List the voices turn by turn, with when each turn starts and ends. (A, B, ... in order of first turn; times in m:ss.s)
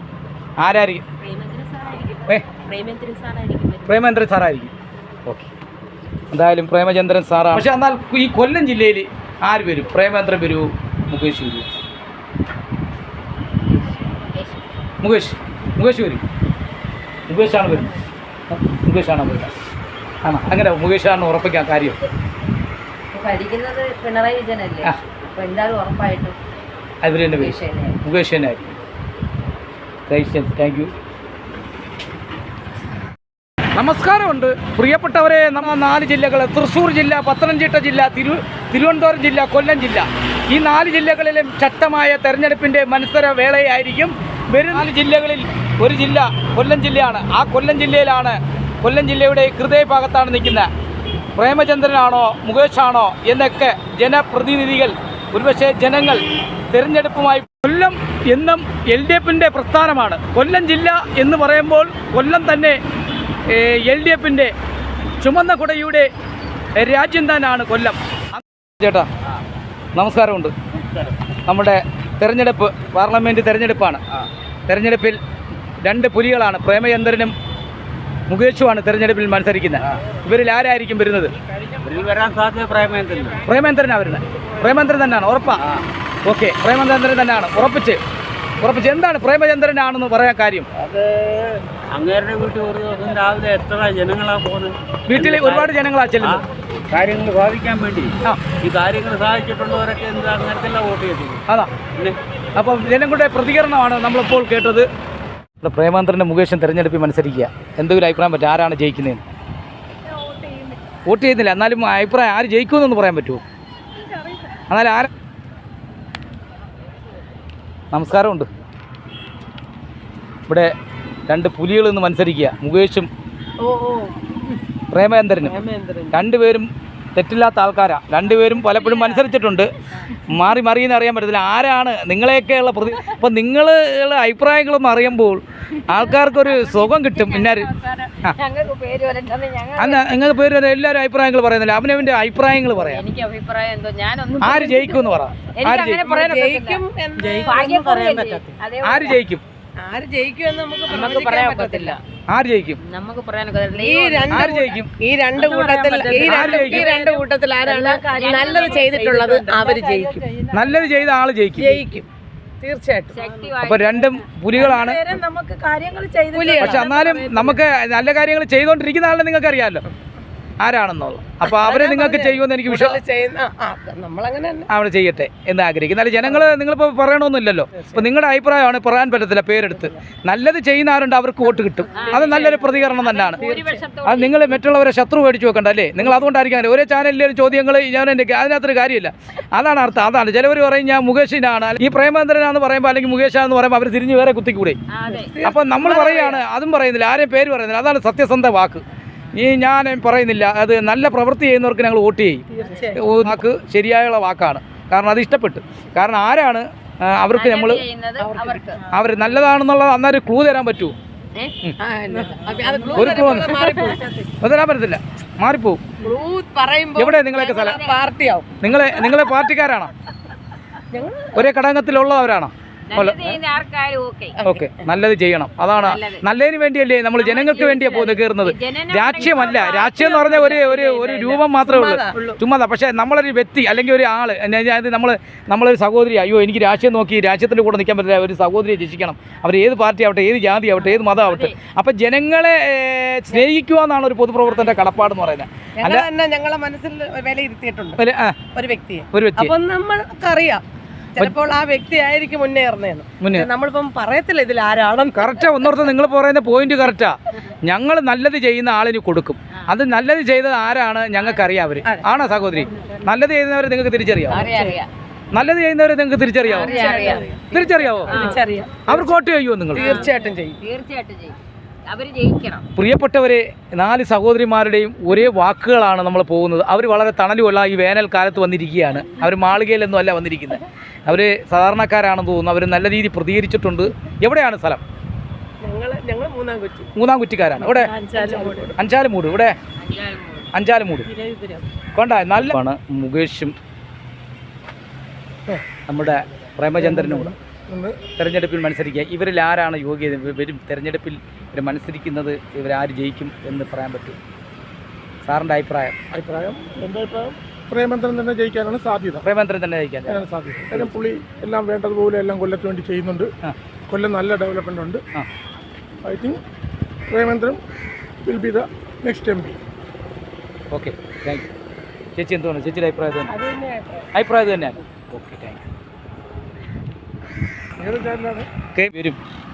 0:00.6-0:01.0 A
0:01.2-0:03.8 B
0:03.8-0:04.7 A
0:06.3-0:11.7 A
0:14.3-0:14.6 B
0:15.0-0:16.2 A
0:17.3-0:17.9 A
0:18.5-0:19.5 A
0:20.2-0:22.0 A
0:23.1-0:26.4 B
0:27.0-0:28.7 A
0:27.3-0:28.0 B
0:30.1-0:30.9 A
0:33.8-0:50.7 A
0:51.4-1:02.8 A
1:03.5-1:04.5 A
1:05.2-1:06.1 A
1:06.8-1:09.1 A
1:10.0-1:10.5 A
1:11.5-1:14.0 A
1:14.7-1:15.2 A
1:15.8-1:17.3 A
1:18.3-1:21.3 A
1:21.8-1:23.3 C
1:23.5-1:25.6 A
1:26.2-1:28.0 A
1:28.6-1:30.7 A
1:30.8-1:35.7 C
1:35.1-1:36.4 A
1:36.9-1:38.1 C
1:38.6-1:41.4 C
1:42.6-1:44.9 A
1:45.6-1:49.2 A
1:51.1-1:53.4 A
1:54.7-1:55.1 A
1:57.9-1:58.5 A
2:00.5-2:00.7 A
2:01.3-2:03.1 A
2:03.6-2:04.2 D
2:04.9-2:05.6 A
2:05.4-2:06.1 D
2:06.1-2:09.7 A
2:08.7-2:09.2 B
2:10.3-2:17.7 A
2:15.9-2:20.2 B
2:19.8-2:23.0 A
2:22.8-2:26.8 B
2:24.4-2:26.0 A
2:26.0-2:27.8 D
2:27.4-2:29.2 B
2:28.8-2:29.4 A
2:29.8-2:32.0 D
2:30.9-2:32.0 B
2:32.3-2:32.8 A
2:32.8-2:34.5 B
2:33.7-2:40.4 D
2:34.3-2:34.9 A
2:35.4-2:37.1 B
2:36.2-2:36.9 A
2:37.6-2:39.0 B
2:40.5-2:41.9 A
2:41.6-2:42.1 D
2:42.6-2:43.5 D
2:43.1-2:44.3 B
2:43.6-2:45.0 A
2:44.5-2:47.6 D
2:46.3-2:47.5 B
2:46.6-2:49.9 A
2:50.6-2:53.0 A
2:51.5-2:54.7 D
2:54.7-3:03.4 A
3:02.0-3:04.6 B
3:02.0-3:02.3 D
3:03.4-3:03.9 D
3:04.0-3:14.8 A
3:14.9-3:15.4 B
3:15.1-3:16.4 D
3:15.4-3:18.8 A
3:19.3-3:27.8 A
3:22.6-3:23.2 D
3:27.3-3:28.8 B
3:28.2-3:28.8 D
3:28.9-3:31.0 A
3:31.8-3:34.0 D
3:33.0-3:33.6 A
3:34.4-3:35.8 A
3:36.0-3:39.1 D
3:37.0-3:37.8 A
3:37.4-3:38.0 B
3:38.6-3:39.9 A
3:40.9-3:41.5 D
3:41.4-3:43.4 A
3:42.9-3:44.4 B
3:44.4-4:06.1 A
3:45.8-3:46.3 B
3:47.2-3:51.5 B
3:51.6-3:52.4 D
4:01.0-4:01.6 B
4:05.8-4:08.0 D
4:08.0-4:08.4 A
4:08.6-4:10.6 D
4:09.1-4:09.5 A
4:11.2-4:15.3 D
4:13.2-4:13.5 A
4:15.2-4:24.4 A
4:21.2-4:21.5 B
4:24.3-4:24.9 B
4:24.3-4:24.8 D
4:25.3-4:26.8 A
4:26.4-4:27.4 B
4:26.6-4:29.2 D
4:27.5-4:28.2 A
4:28.1-4:28.4 B
4:28.9-4:29.9 A
4:29.7-4:30.6 D
4:29.8-4:31.4 B
4:31.9-4:32.7 B
4:32.8-4:44.8 A
4:45.6-4:46.9 D
4:47.0-4:47.9 A
4:47.6-4:48.7 D
4:48.3-4:48.7 E
4:48.8-4:49.6 A
4:49.8-4:50.6 B
4:50.5-4:51.1 A
4:51.1-4:51.6 D
4:52.0-4:53.5 A
4:55.9-4:57.3 A
4:56.8-4:58.0 E
4:58.2-5:04.2 A
5:05.2-5:06.0 A
5:06.1-5:09.2 E
5:09.2-5:10.9 A
5:10.1-5:13.3 E
5:13.9-5:15.0 E
5:16.0-5:16.4 E
5:17.1-5:17.6 E
5:18.3-5:19.6 E
5:20.7-5:21.5 A
5:22.2-5:23.4 A
5:23.3-5:24.1 D
5:24.1-5:25.6 A
5:27.8-5:28.5 E
5:28.8-5:29.2 A